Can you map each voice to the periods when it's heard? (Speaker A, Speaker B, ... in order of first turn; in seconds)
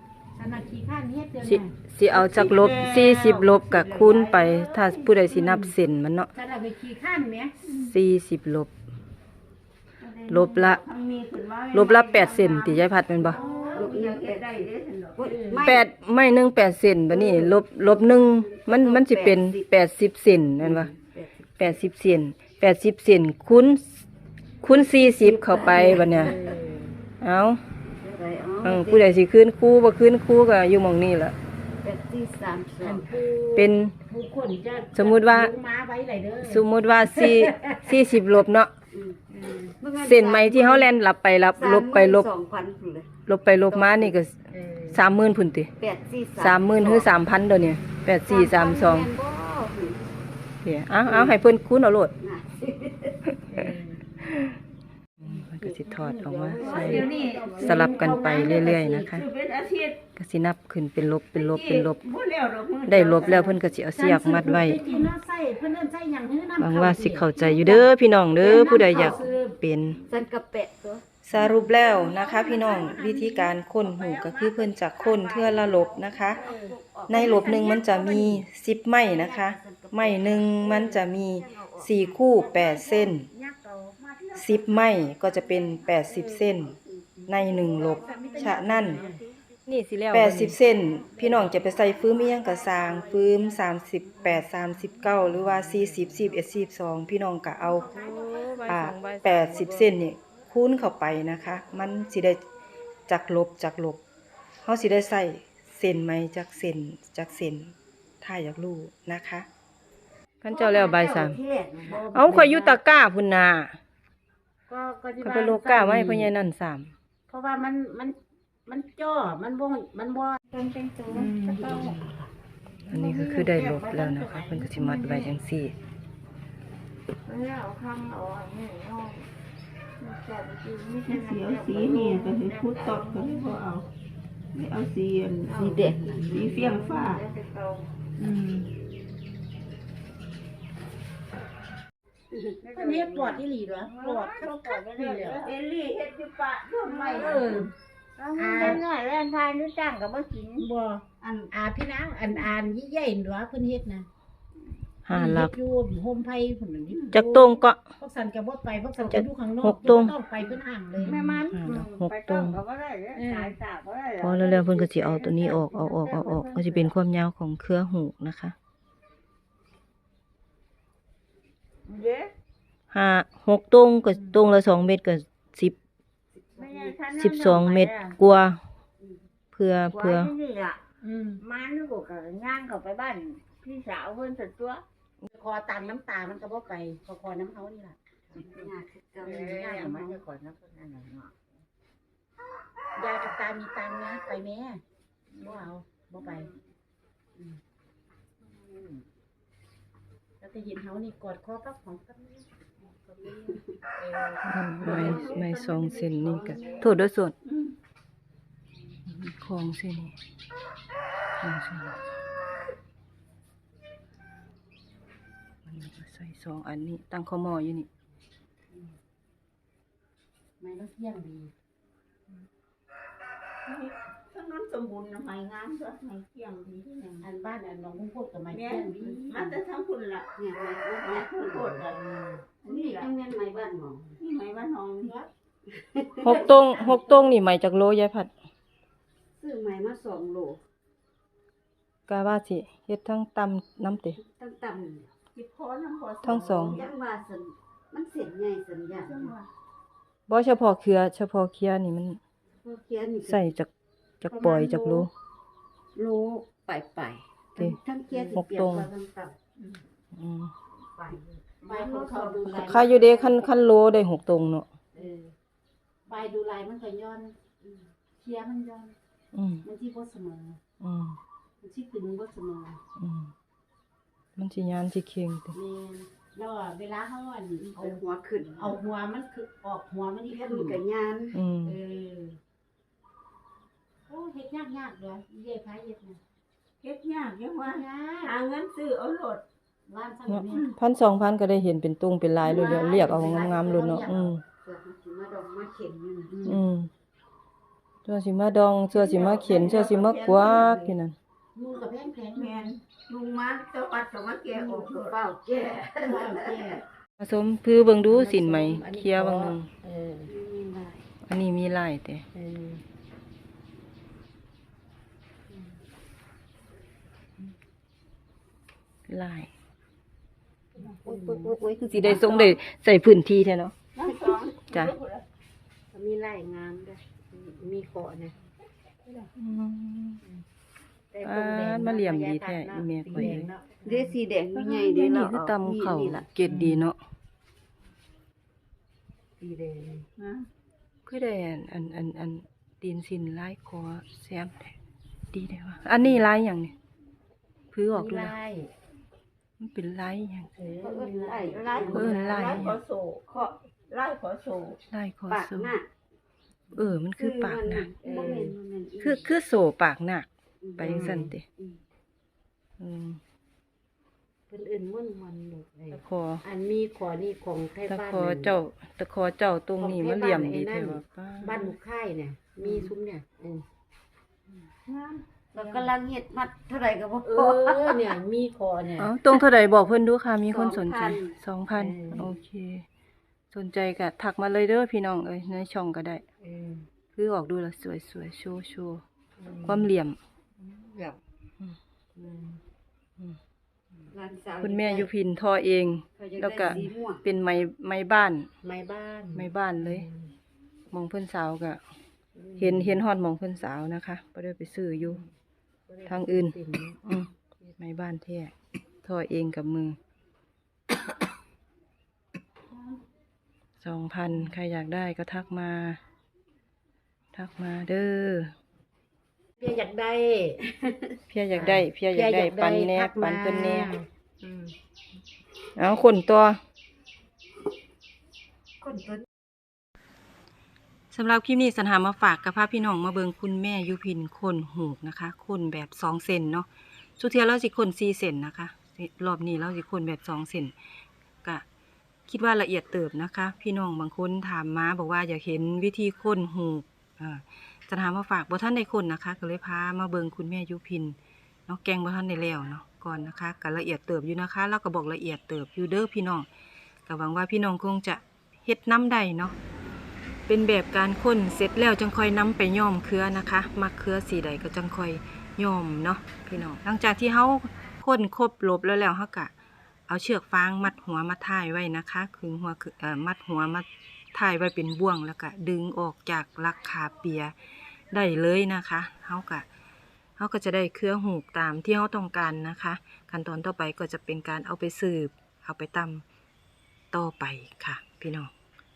Speaker A: 0.3-1.7, 5.3-5.7, 6.3-7.5, 13.2-13.9, 15.2-15.7, 26.1-26.9, 32.8-38.0, 39.4-39.7, 44.5-45.0, 53.5-54.0, 56.6-59.0, 63.9-69.5, 71.7-73.6, 76.3-78.4, 82.3-83.9, 85.9-86.5, 87.7-89.2, 90.5-95.2, 97.6-99.2, 111.8-112.8, 114.7-116.3, 117.3-120.4, 121.1-122.0, 122.9-125.3, 138.2-138.7, 142.7-145.5, 147.1-147.7, 148.3-148.8, 150.6-154.1, 155.1-161.2, 163.1-163.6, 174.1-174.4, 181.0-181.4, 185.3-188.0, 189.4-190.2, 192.9-194.8, 195.4-196.5, 200.4-206.9, 220.6-221.5, 227.2-229.5, 231.9-232.4, 235.0-235.3, 236.2-237.3, 254.3-255.1, 258.1-258.4, 261.6-263.3, 264.9-265.3, 266.1-267.4, 268.2-268.9, 269.6-270.6, 271.6-272.8, 275.5-278.0, 278.5-280.8, 281.7-282.4, 284.1-286.2, 287.6-288.4, 289.9-290.7, 292.4-294.3, 296.3-296.6, 301.5-302.7, 306.0-306.8, 308.0-310.3, 312.3-312.8, 321.0-321.6, 325.9-328.3, 331.1-334.1, 339.4-340.1, 347.9-348.7, 350.6-352.3, 358.0-358.5, 360.8-361.3, 364.5-368.6, 369.8-373.6, 377.2-379.1, 381.8-382.3, 386.4-386.7, 389.4-389.9, 392.1-392.6, 398.6-400.3, 402.4-403.0, 405.9-407.0, 419.6-420.7, 421.5-424.7
Speaker B: 1.4-6.3, 7.8-8.7, 10.3-10.8, 11.7-13.4, 15.6-20.9, 21.6-24.0, 24.6-26.3, 27.2-27.6, 28.6-31.3, 33.5-33.9, 34.9-35.5, 36.4-38.7, 40.0-42.3, 43.3-45.7, 46.4-49.1, 50.6-52.1, 55.2-59.2, 60.1-62.0, 62.9-64.8, 66.6-70.0, 71.2-76.4, 77.1-83.3, 84.3-86.7, 87.3-89.0, 89.7-102.4, 103.1-104.0, 104.6-109.5, 110.4-111.4, 112.1-113.8, 115.2-116.9, 122.9-125.7, 155.0-155.5, 157.1-157.8, 159.1-160.1, 161.0-162.6, 164.2-168.5, 172.9-175.7, 177.1-178.6, 179.5-180.3, 204.4-207.3, 209.1-210.2, 211.4-212.0, 215.7-217.9, 236.2-238.3, 242.1-244.2, 246.2-246.8, 250.3-252.2, 253.2-253.7, 254.2-255.1, 258.3-258.9, 260.1-260.5, 262.5-264.7, 269.3-269.6, 270.8-271.2, 273.0-273.3, 274.4-275.5, 281.3-281.8, 290.3-294.4, 296.4-296.9, 298.1-301.1, 307.2-309.7, 311.3-312.2, 319.1-319.5, 321.4-323.7, 329.4-330.2, 331.2-333.5, 334.5-337.0, 341.1-344.7, 345.3-346.7, 347.7-348.3, 349.6-350.5, 351.9-352.8, 354.9-355.8, 356.7-357.9, 359.0-361.4, 362.8-363.2, 365.9-366.4, 367.9-371.7, 379.0-382.8, 383.5-386.2, 387.1-389.0, 389.6-390.2, 394.6-398.5, 399.3-400.1, 400.9-401.8, 402.6-405.2, 406.1-410.0, 413.8-416.0, 417.3-418.5, 421.3-423.9, 425.8-426.6, 431.1-436.7, 437.2-440.7, 442.3-451.1, 451.7-456.5, 457.1-459.5, 460.5-469.5, 470.1-477.5, 478.1-479.6, 480.4-486.2, 487.1-488.5
Speaker C: 2.1-5.4, 7.6-7.9, 10.0-15.3, 56.1-60.1, 61.3-63.6, 68.9-69.2, 71.3-73.1, 73.7-76.4, 84.0-86.0, 87.4-88.7, 131.0-133.9, 134.5-137.2, 145.3-147.7, 156.9-157.1, 204.8-205.5, 223.6-227.2, 228.5-230.3, 230.9-232.0, 232.6-233.1, 234.2-235.1, 245.3-246.9, 249.0-249.5, 286.8-289.4, 298.9-300.9, 302.3-305.1, 322.0-322.6, 323.9-325.2, 340.2-340.5, 351.4-354.8, 374.9-375.9
Speaker D: 13.7-15.8, 17.2-17.6, 18.2-19.6, 20.6-21.5, 25.2-26.5, 28.0-29.1, 31.8-33.0, 38.9-39.3, 39.8-40.9, 41.5-43.1, 43.8-44.1, 45.8-47.1, 48.3-50.0, 51.0-51.3, 52.2-53.2, 56.0-58.2, 68.5-68.9, 70.1-71.1, 76.3-77.8, 79.0-82.3, 86.4-86.8, 88.6-89.2, 98.9-99.9, 110.5-112.0, 121.7-122.1, 135.5-136.8, 176.3-177.0, 188.3-189.7, 204.9-205.5, 206.1-206.7, 230.3-231.9, 232.6-234.2, 235.7-236.4, 239.3-240.6, 244.2-245.1, 246.6-249.3, 252.6-253.5, 255.9-259.4, 260.9-263.0, 277.6-278.8, 280.3-281.4, 292.8-293.6, 294.6-296.3, 304.5-306.8, 310.3-311.1, 321.1-322.3, 333.8-336.2, 350.8-352.6, 355.3-355.9, 357.1-359.3, 360.6-361.8, 372.6-372.9, 375.5-378.2, 380.4-381.4, 394.1-395.1, 396.2-397.2, 420.8-421.1, 428.8-429.2
Speaker E: 120.5-122.0, 122.9-123.4, 124.7-125.3, 127.2-129.3, 130.0-133.6, 135.4-135.8, 136.3-137.9, 142.6-145.5, 146.8-147.5, 148.2-150.7, 161.1-167.0, 171.9-172.3, 176.6-178.2, 179.9-180.8, 181.4-184.8, 189.2-191.4, 198.4-199.0